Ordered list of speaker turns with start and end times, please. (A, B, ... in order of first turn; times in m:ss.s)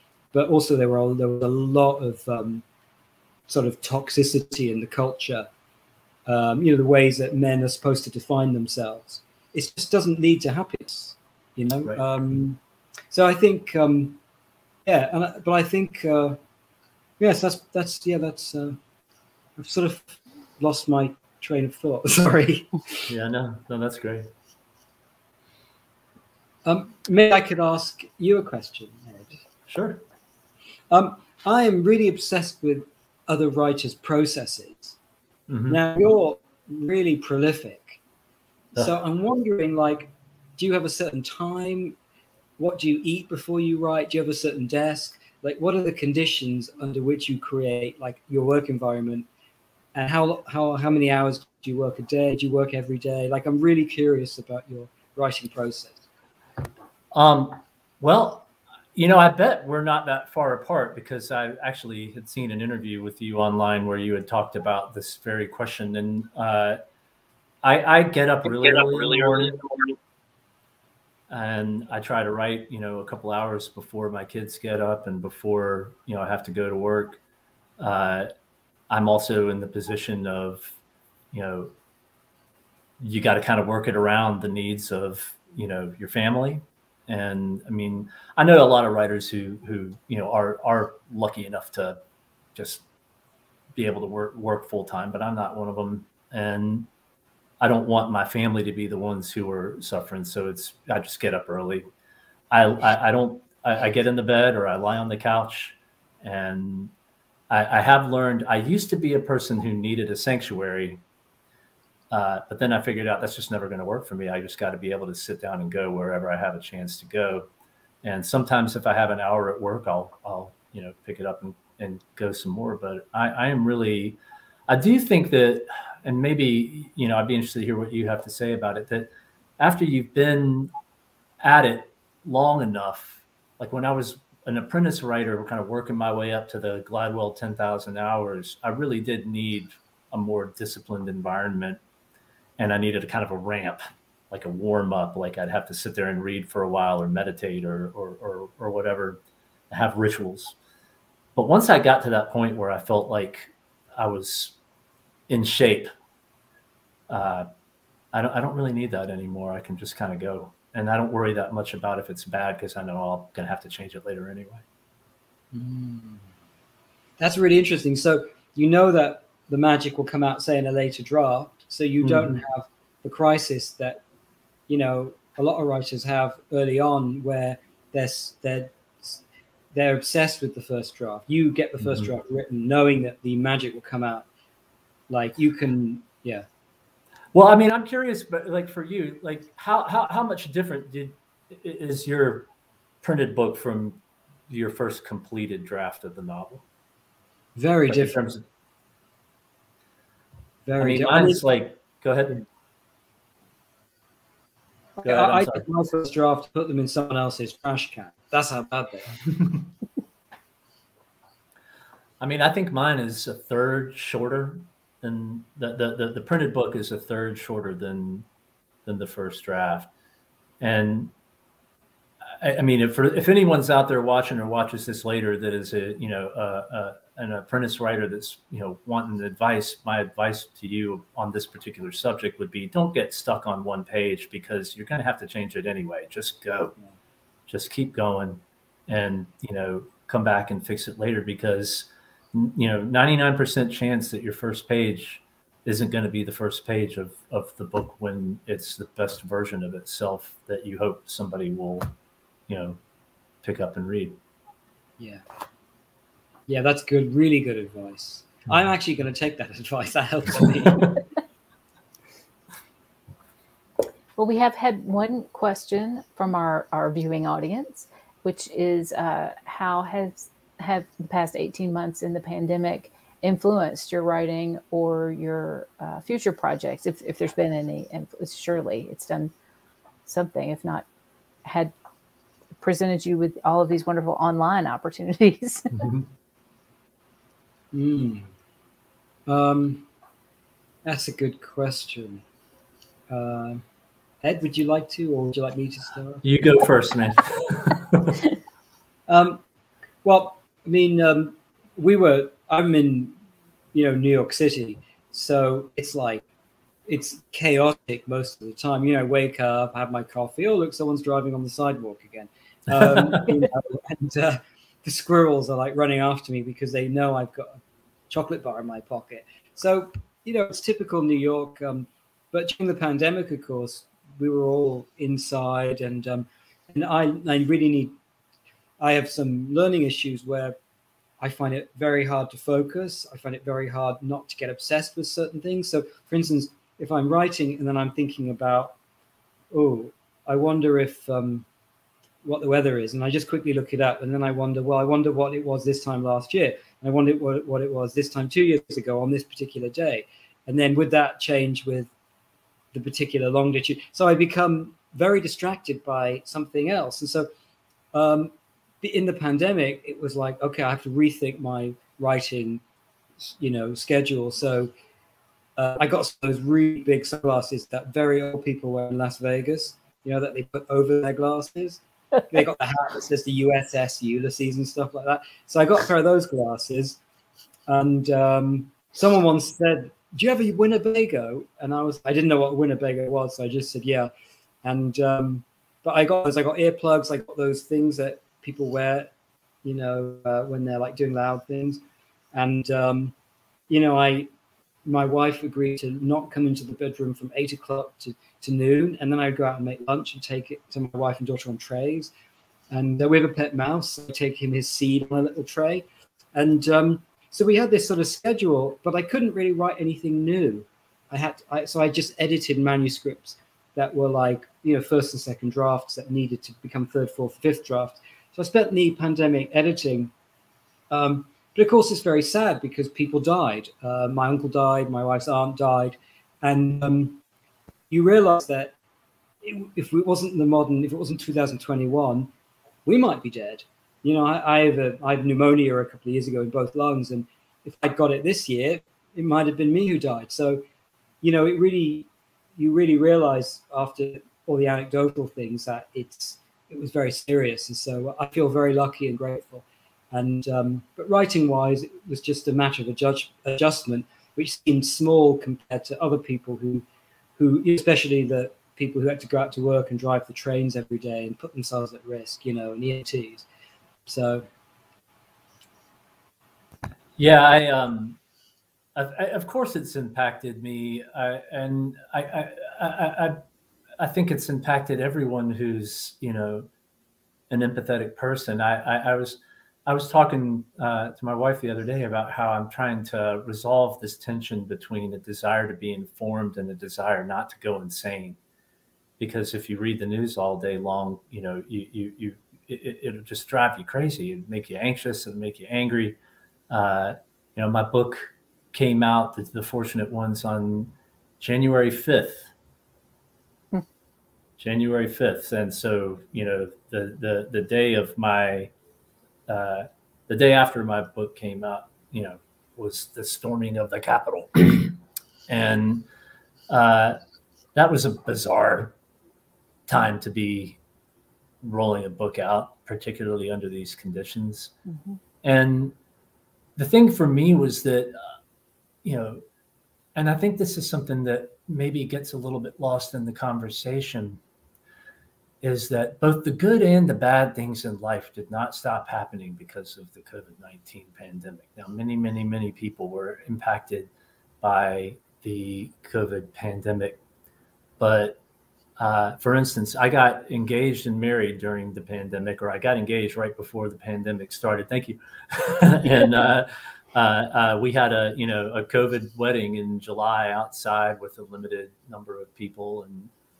0:00.3-0:02.6 A
0:03.5-0:05.5 A
0:06.2-0:12.6 A
0:13.1-0:14.2 A
0:14.8-0:16.4 A
0:17.2-0:18.8 A
0:19.6-0:23.0 A
0:23.1-0:24.3 B
0:26.6-0:29.4 A
0:29.7-0:30.0 B
0:30.9-0:35.0 A
0:35.5-0:35.8 B
0:35.7-0:38.0 A
0:38.7-0:42.0 A
0:42.6-0:49.3 A
0:49.9-0:56.0 A
0:57.1-1:06.8 B
1:07.6-1:09.6 B
1:11.3-1:17.2 B
1:17.8-1:18.3 B
1:18.9-1:20.8 B
1:21.3-1:21.7 B
1:23.0-1:32.0 B
1:32.5-1:32.8 B
1:33.7-1:36.9 B
1:37.6-1:41.8 B
1:42.5-1:46.9 B
1:47.5-1:51.0 B
1:52.1-1:57.5 B
1:58.0-2:09.1 B
2:09.6-2:10.7 B
2:11.4-2:21.8 B
2:22.6-2:29.2 B
2:29.7-2:30.6 B
2:31.3-2:34.6 B
2:35.3-2:35.9 B
2:37.1-2:37.5 B
2:38.1-2:44.6 B
2:45.5-2:46.2 A
2:47.2-2:54.0 A
2:52.0-2:52.4 B
2:54.7-2:59.2 A
2:59.7-3:04.3 A
3:01.8-3:02.1 B
3:05.1-3:06.4 A
3:07.3-3:12.5 B
3:13.0-3:16.6 B
3:17.6-3:18.2 A
3:17.9-3:18.4 B
3:20.6-3:21.4 A
3:20.8-3:22.4 B
3:25.0-3:29.2 A
3:25.0-3:25.6 B
3:32.2-3:38.3 B
3:38.8-3:39.9 B
3:40.6-3:41.1 B
3:42.4-3:56.7 B
3:57.5-4:11.9 B
4:12.5-4:12.8 B
4:13.4-4:14.2 B
4:16.5-4:21.0 A
4:24.2-4:39.3 C
4:40.0-4:40.8 C
4:41.4-4:41.7 C
4:42.6-4:45.8 C
4:47.7-4:48.3 A
4:49.3-4:49.9 A
4:50.8-4:52.2 A
4:53.1-4:53.6 A
4:54.2-4:56.2 A
4:56.2-4:58.2 B
4:59.1-4:59.4 A
5:00.0-5:03.1 A
5:03.7-5:06.2 A
5:06.9-5:17.6 A
5:18.1-5:27.9 A
5:28.8-5:30.6 A
5:31.2-5:38.7 A
5:39.5-5:41.4 A
5:42.2-5:51.9 A
5:52.7-5:57.3 A
5:57.9-6:02.6 A
6:03.2-6:04.7 A
6:05.6-6:17.0 A
6:17.7-6:24.1 A
6:24.6-6:29.1 A
6:29.6-6:31.8 A
6:32.3-6:33.1 A
6:33.7-6:34.3 A
6:34.8-6:42.1 A
6:42.7-7:00.1 A
7:00.9-7:07.2 A
7:07.9-7:08.7 A
7:09.4-7:12.3 A
7:12.8-7:20.6 A
7:21.2-7:36.8 A
7:37.4-7:43.4 A
7:44.1-7:44.5 A
7:47.2-7:48.2 B
7:48.9-7:53.4 B
7:54.0-7:56.7 B
7:57.5-8:08.4 B
8:09.2-8:16.2 B
8:16.7-8:22.5 B
8:24.6-8:28.7 B
8:29.5-8:34.9 B
8:35.5-8:36.0 B
8:36.7-8:37.2 B
8:37.7-8:38.9 B
8:39.9-8:40.8 B
8:41.6-8:44.7 B
8:44.9-8:45.2 C
8:45.4-8:45.9 B
8:46.8-8:48.1 B
8:49.0-8:49.4 B
8:50.2-8:54.4 B
8:55.6-9:04.1 B
9:04.6-9:07.2 B
9:08.0-9:08.4 B
9:09.0-9:23.3 B